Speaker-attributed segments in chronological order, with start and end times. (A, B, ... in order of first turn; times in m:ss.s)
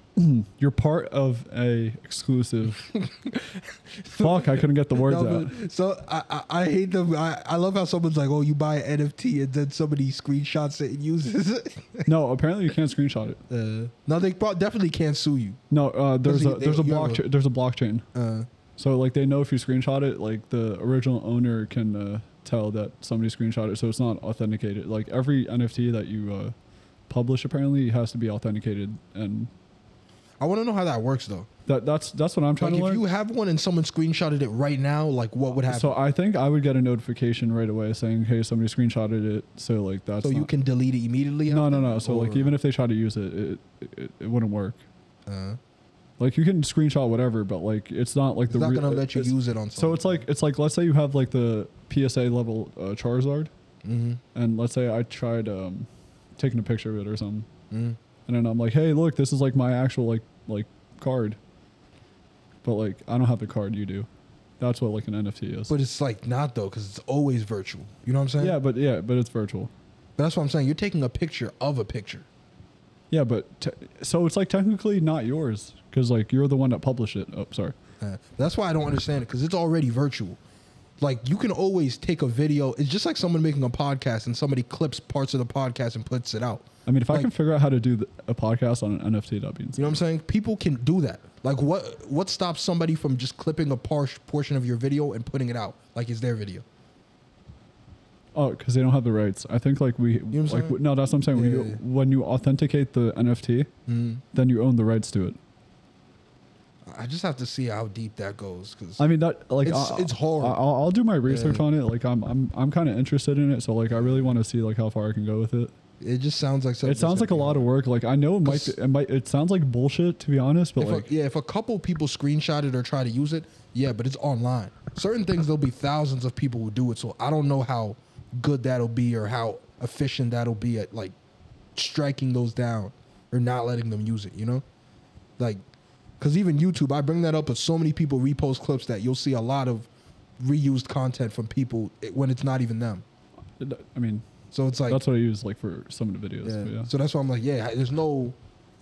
0:00.2-0:02.9 A
0:02.9-0:12.1 B
0:04.2-0:05.6 A
0:12.1-0:13.4 A
0:13.5-0:15.6 B
0:15.7-0:18.0 A
0:16.2-0:17.2 B
0:18.2-0:18.5 B
0:18.8-0:26.5 A
0:27.1-0:29.5 A
0:30.4-0:31.5 B
0:31.7-0:33.1 A
0:32.6-0:36.0 B
0:35.7-0:40.5 A
0:40.2-0:42.5 B
0:41.5-0:44.8 A
0:45.3-0:45.6 B
0:46.2-0:53.5 A
0:48.5-0:50.2 B
0:53.8-0:54.2 B
0:54.4-0:57.5 A
0:57.7-0:58.0 B
0:58.3-1:01.4 A
1:02.6-1:04.1 A
1:04.6-1:05.8 A
1:05.7-1:08.6 B
1:08.4-1:09.7 A
1:10.2-1:12.3 B
1:13.1-1:17.8 A
1:18.0-1:20.4 B
1:21.0-1:27.3 B
1:26.9-1:30.0 A
1:29.8-1:36.6 B
1:38.4-1:43.7 A
1:40.3-1:40.8 B
1:41.3-1:41.8 B
1:43.9-1:44.2 B
1:44.3-1:45.4 A
1:46.8-1:49.0 B
1:49.0-1:55.7 A
1:49.6-1:50.6 B
1:51.3-1:51.6 B
1:53.9-1:54.4 B
1:56.0-1:57.7 B
1:56.8-2:01.1 A
1:58.4-1:58.8 B
2:00.8-2:11.2 B
2:11.8-2:14.6 B
2:16.2-2:19.9 B
2:20.4-2:23.0 B
2:23.6-2:24.2 A
2:24.5-2:25.0 B
2:24.9-2:26.9 A
2:26.4-2:28.4 B